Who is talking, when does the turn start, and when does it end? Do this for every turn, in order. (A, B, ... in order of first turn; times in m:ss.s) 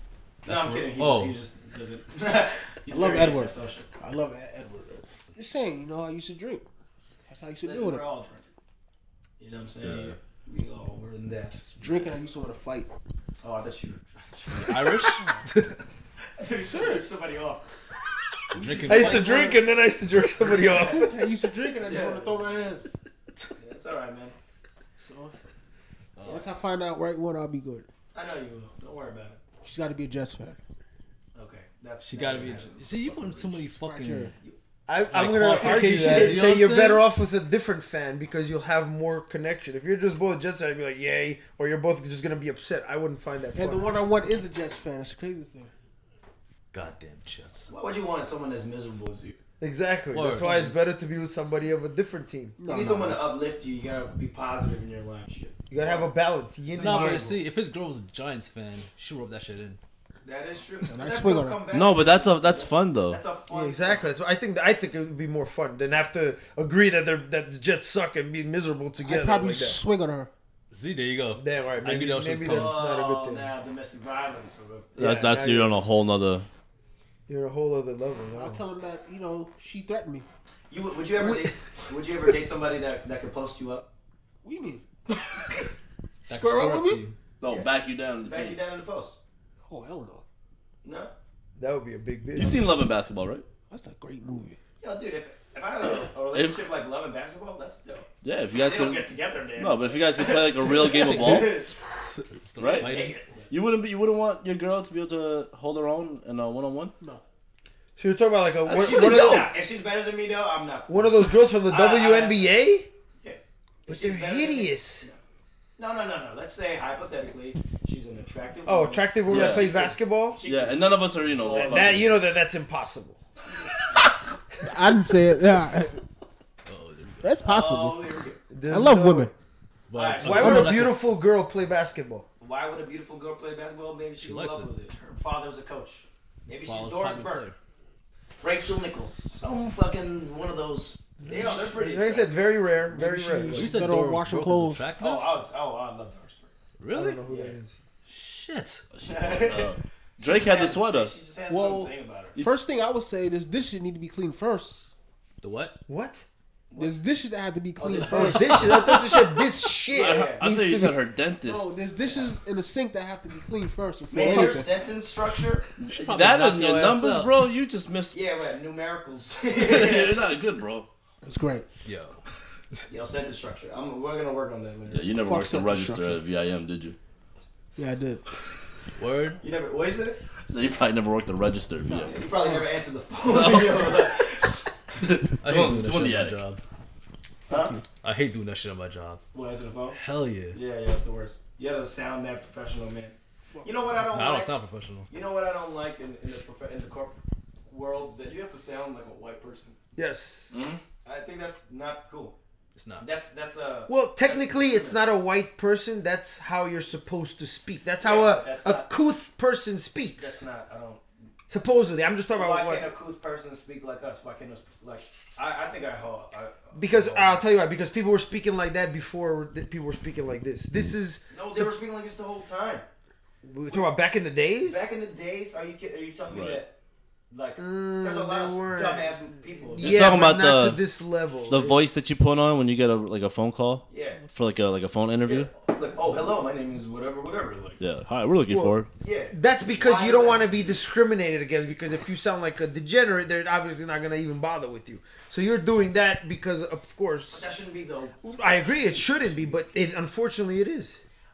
0:00.4-0:01.4 A
0:00.4-0:03.9 B
0:02.9-0:06.7 C
0:07.3-0:08.1 C
0:07.6-0:08.5 B
0:09.4-0:11.6 B
0:09.8-0:10.2 D
0:11.8-0:12.9 C
0:13.4-0:15.4 B
0:14.5-0:15.7 A
0:16.2-0:17.6 B
0:16.6-0:17.1 C
0:18.5-0:19.6 A
0:18.6-0:19.6 C
0:18.8-0:21.2 E
0:18.9-0:19.2 B
0:20.4-0:21.1 B
0:20.8-0:23.0 C
0:21.8-0:22.5 B
0:23.6-0:24.4 B
0:25.0-0:25.4 C
0:26.2-0:26.5 B
0:26.2-0:27.9 C
0:28.1-0:29.4 B
0:29.6-0:30.6 C
0:31.4-0:32.8 B
0:32.0-0:34.3 A
0:32.9-0:33.7 D
0:33.8-0:34.3 C
0:34.9-0:44.0 E
0:35.1-0:36.5 B
0:35.1-0:37.1 A
0:43.5-0:45.7 C
0:46.7-0:47.7 A
0:47.7-0:49.4 B
0:49.6-0:52.7 E
0:50.1-0:50.8 A
0:50.3-0:50.7 B
0:52.6-0:53.2 C
0:52.7-0:56.1 B
0:55.7-0:57.4 E
0:56.7-0:57.3 B
0:56.8-0:59.8 A
1:00.2-1:04.1 B
1:00.9-1:01.6 C
1:01.7-1:03.2 D
1:03.5-1:09.8 E
1:09.0-1:10.3 C
1:10.7-1:12.8 A
1:11.4-1:13.5 E
1:12.4-1:15.0 B
1:15.0-1:15.8 E
1:15.0-1:16.5 D
1:17.3-1:18.6 E
1:18.3-1:20.3 C
1:20.7-1:23.8 B
1:21.2-1:21.5 E
1:24.4-1:24.8 C
1:26.3-1:27.2 A
1:26.3-1:27.0 C
1:27.4-1:28.6 D
1:27.4-1:29.2 B
1:29.7-1:30.2 C
1:30.8-1:31.1 B
1:31.6-1:32.6 E
1:32.4-1:33.4 D
1:33.7-1:34.6 C
1:34.8-1:41.7 B
1:36.3-1:36.7 D
1:38.2-1:41.6 D
1:42.1-1:43.2 A
1:42.6-1:43.0 D
1:42.7-1:43.5 B
1:43.5-1:47.0 D
1:48.0-1:49.6 E
1:48.6-1:52.6 B
1:48.7-1:49.5 D
1:50.9-1:52.9 E
1:53.2-1:55.2 B
1:53.9-1:55.1 E
1:55.8-2:02.1 B
1:58.6-2:00.4 E
1:59.3-1:59.8 D
2:00.4-2:02.2 D
2:01.5-2:03.2 E
2:03.5-2:04.1 B
2:04.6-2:06.0 C
2:06.7-2:07.3 A
2:07.2-2:08.0 C
2:07.4-2:08.4 B
2:08.5-2:09.3 E
2:08.7-2:09.3 C
2:09.9-2:11.1 A
2:10.0-2:10.7 B
2:10.2-2:12.3 E
2:10.4-2:10.8 C
2:12.4-2:17.5 B
2:14.2-2:14.7 A
2:16.6-2:17.6 A
2:18.4-2:22.5 B
2:21.2-2:23.8 E
2:22.9-2:24.9 C
2:23.5-2:25.3 A
2:25.0-2:26.5 B
2:26.8-2:27.2 A
2:26.9-2:27.8 E
2:27.3-2:27.6 B
2:28.1-2:28.8 A
2:28.9-2:31.2 D
2:29.0-2:32.4 B
2:31.5-2:34.9 C
2:35.4-2:35.8 A
2:35.9-2:36.3 E
2:36.7-2:37.0 B
2:36.8-2:38.8 C
2:37.8-2:39.0 B
2:38.1-2:41.0 E
2:39.9-2:40.5 B
2:39.9-2:41.7 D
2:41.4-2:44.7 C
2:44.1-2:45.7 B
2:44.2-2:44.5 E
2:45.8-2:48.2 D
2:45.9-2:47.5 A
2:48.1-2:50.2 B
2:49.5-2:50.9 D
2:51.2-2:51.7 C
2:51.8-2:52.2 A
2:52.9-2:55.1 B
2:54.9-2:57.0 D
2:55.2-2:56.2 C
2:57.8-2:58.2 C
2:59.0-2:59.4 A
2:59.4-3:00.2 B
3:00.5-3:02.2 D
3:01.9-3:02.6 C
3:02.0-3:04.5 B
3:03.3-3:04.1 D
3:05.0-3:06.4 D
3:05.4-3:06.6 A
3:07.5-3:07.8 B
3:07.5-3:07.8 C
3:08.0-3:09.2 A
3:09.3-3:10.0 B
3:09.9-3:10.6 A
3:10.5-3:14.6 B
3:14.0-3:15.1 A
3:15.1-3:19.8 B
3:20.0-3:20.6 E
3:20.5-3:20.8 D
3:21.0-3:22.4 B
3:22.8-3:23.1 A
3:23.0-3:25.0 B
3:23.9-3:30.4 E
3:28.0-3:28.9 B
3:30.2-3:31.0 B
3:31.5-3:32.9 E
3:32.3-3:37.5 B
3:36.7-3:41.8 E
3:41.3-3:42.9 B
3:43.4-3:44.9 E
3:44.6-3:46.8 B
3:46.3-3:46.6 D
3:47.3-3:50.2 B
3:47.6-3:52.0 E
3:49.8-3:50.8 D
3:51.5-3:55.5 D
3:53.9-3:54.2 B
3:55.2-3:57.8 B
3:57.8-3:58.9 D
3:58.5-4:07.5 E
3:59.0-4:00.8 B
4:07.3-4:09.9 B
4:08.2-4:11.0 E